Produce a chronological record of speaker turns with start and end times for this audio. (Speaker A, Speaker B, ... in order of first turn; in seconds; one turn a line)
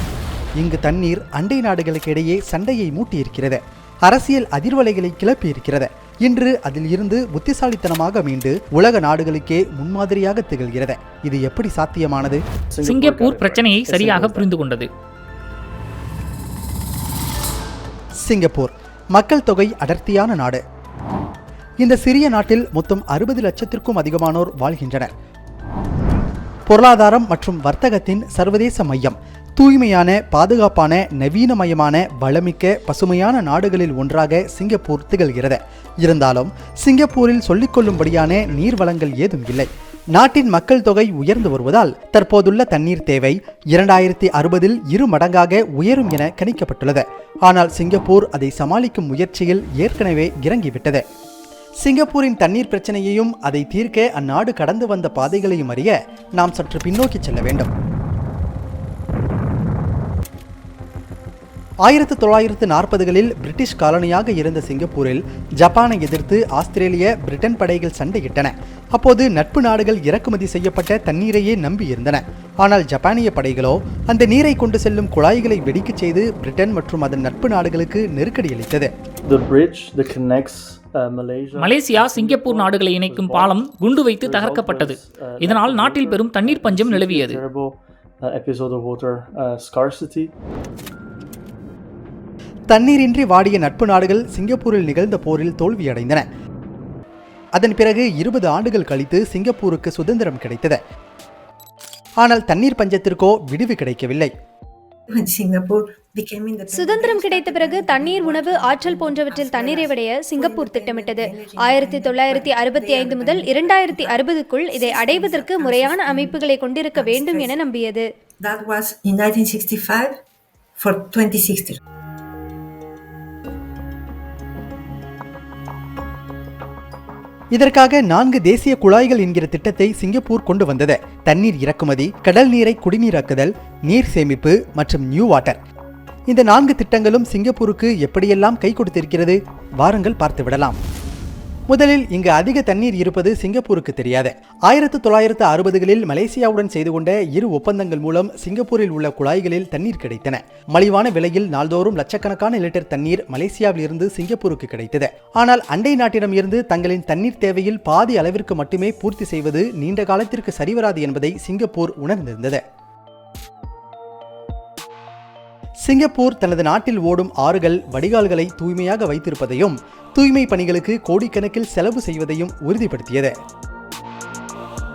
Speaker A: 0.6-12.4
Speaker B: 12.7-14.5
Speaker C: 12.8-14.9
Speaker A: 18.2-20.6
Speaker A: 21.8-25.1
Speaker A: 26.7-51.0
Speaker A: 51.8-57.7
Speaker A: 61.9-78.9
Speaker B: 79.2-83.6
Speaker C: 81.5-87.4
Speaker B: 84.2-90.3
Speaker A: 92.7-96.2
Speaker A: 97.6-100.8
Speaker A: 102.2-104.3
Speaker D: 105.1-117.6
Speaker E: 106.7-118.0
Speaker D: 118.4-120.2
Speaker D: 120.8-121.8
Speaker A: 127.5-135.6
Speaker A: 136.3-140.8
Speaker A: 141.7-162.6
Speaker A: 165.8-173.3